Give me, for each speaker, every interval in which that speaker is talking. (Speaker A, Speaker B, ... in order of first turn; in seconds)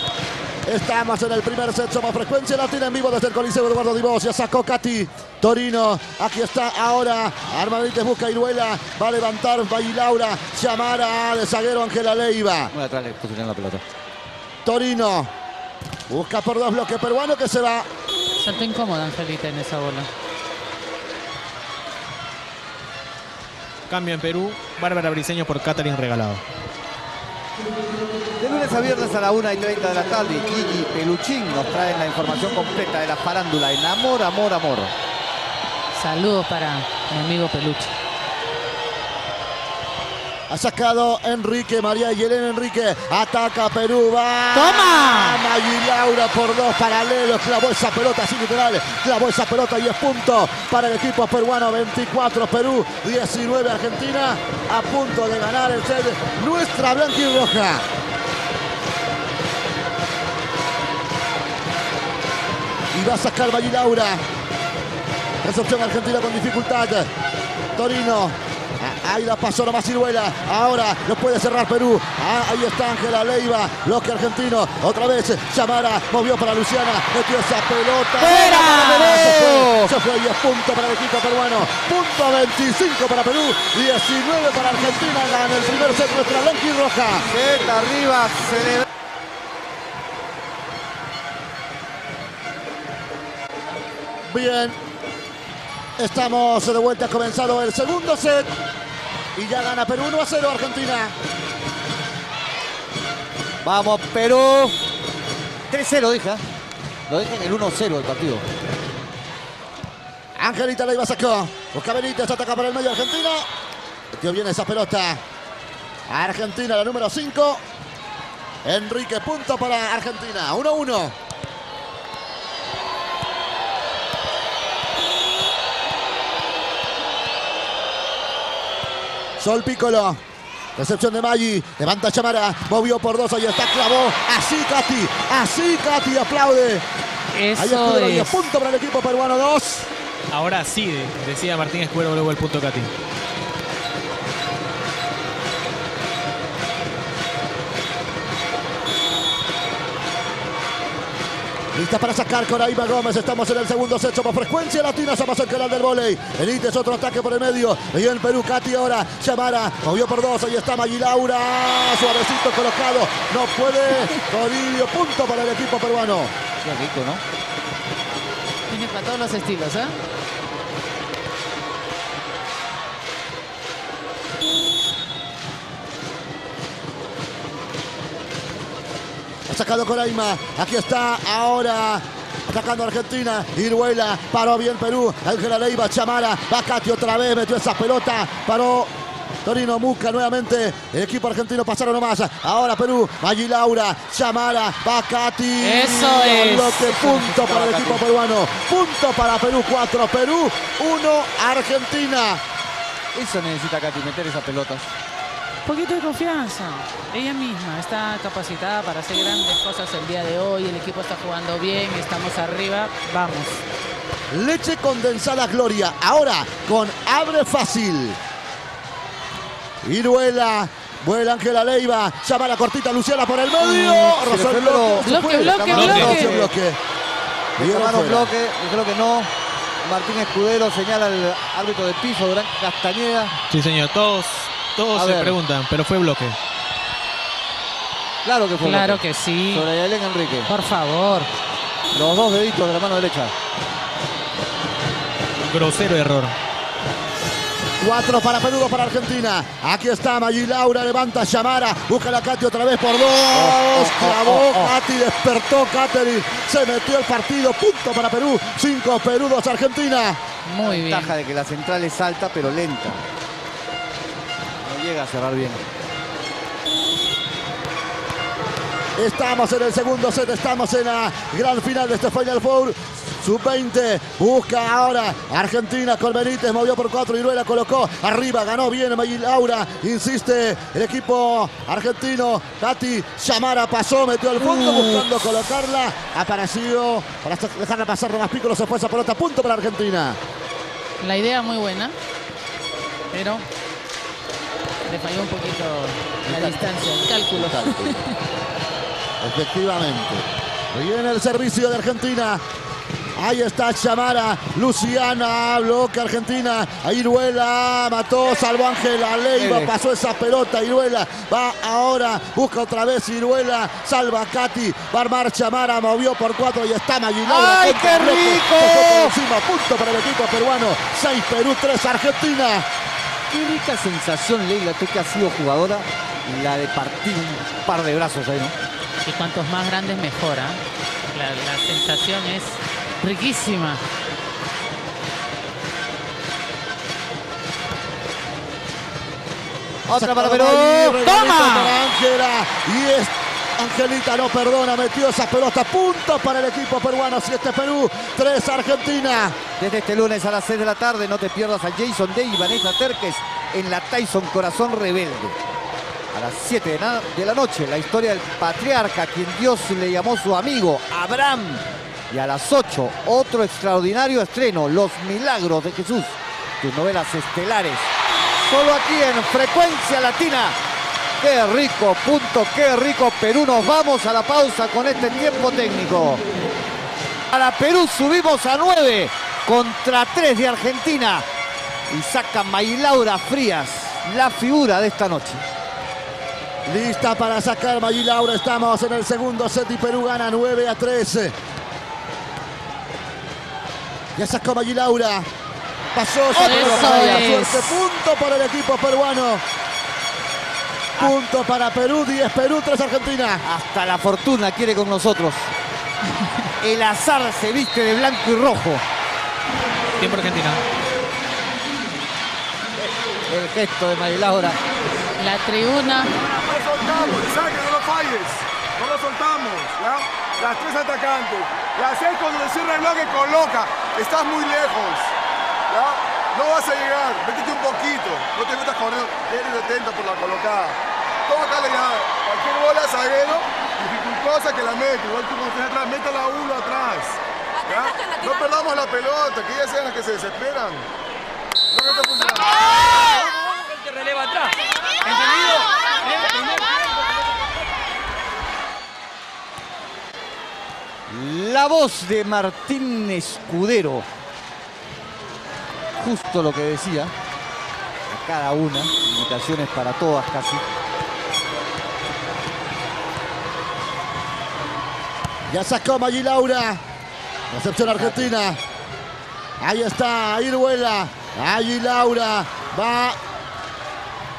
Speaker A: 0.7-12.7, 14.7-15.3, 16.1-17.9, 40.5-57.9, 62.9-64.2, 65.4-67.1, 67.7-87.2, 94.3-94.8, 96.0-98.5, 99.4-101.2, 110.4-113.5, 114.1-115.2, 116.1-117.6, 118.7-121.2, 129.4-130.2, 130.8-136.8, 137.6-139.9, 151.7-166.3, 179.5-188.9, 189.4-202.4, 214.3-218.2, 219.8-226.8, 227.6-228.3, 247.8-260.2, 269.0-290.2, 299.2-302.4, 303.2-322.7, 339.9-349.4, 386.7-391.4, 394.2-395.3, 395.9-399.4, 401.0-403.4, 465.5-466.8, 467.5-468.6, 469.6-473.2
Speaker B: 12.7-13.8, 28.4-34.9, 78.2-79.9, 87.2-88.8, 103.6-104.8, 105.7-106.4, 107.1-108.5, 166.6-167.2, 196.8-198.0, 203.1-204.9, 223.6-226.5, 227.6-229.3, 229.8-233.3, 234.9-235.4, 238.2-240.5, 241.9-243.3, 253.3-254.8, 260.6-263.0, 264.6-265.6, 284.4-285.1, 296.2-298.0, 309.4-309.7, 317.2-319.1, 323.3-328.6, 339.9-341.6, 349.6-355.4, 356.1-370.6, 371.2-376.2, 377.3-381.3, 381.9-385.4, 396.3-397.4, 403.4-405.5, 406.6-408.8, 412.8-414.6, 451.1-454.1, 456.0-457.1, 458.1-460.6, 467.9-468.3
Speaker C: 18.4-20.1, 35.9-37.9, 44.5-45.4, 78.6-79.1, 137.3-138.5, 168.7-170.0, 195.6-196.8, 205.7-213.6, 225.0-226.4, 238.6-239.7, 240.5-241.3, 260.4-261.2, 291.0-291.9, 293.1-293.5, 294.9-298.1, 329.0-330.6, 331.1-333.8, 396.4-397.8, 415.2-416.1
Speaker D: 23.9-26.4, 140.3-142.9, 225.7-226.2, 233.5-236.4, 245.4-246.3, 410.0-410.6
Speaker E: 416.2-425.1, 425.7-440.9, 441.7-442.6
Speaker F: 442.9-447.1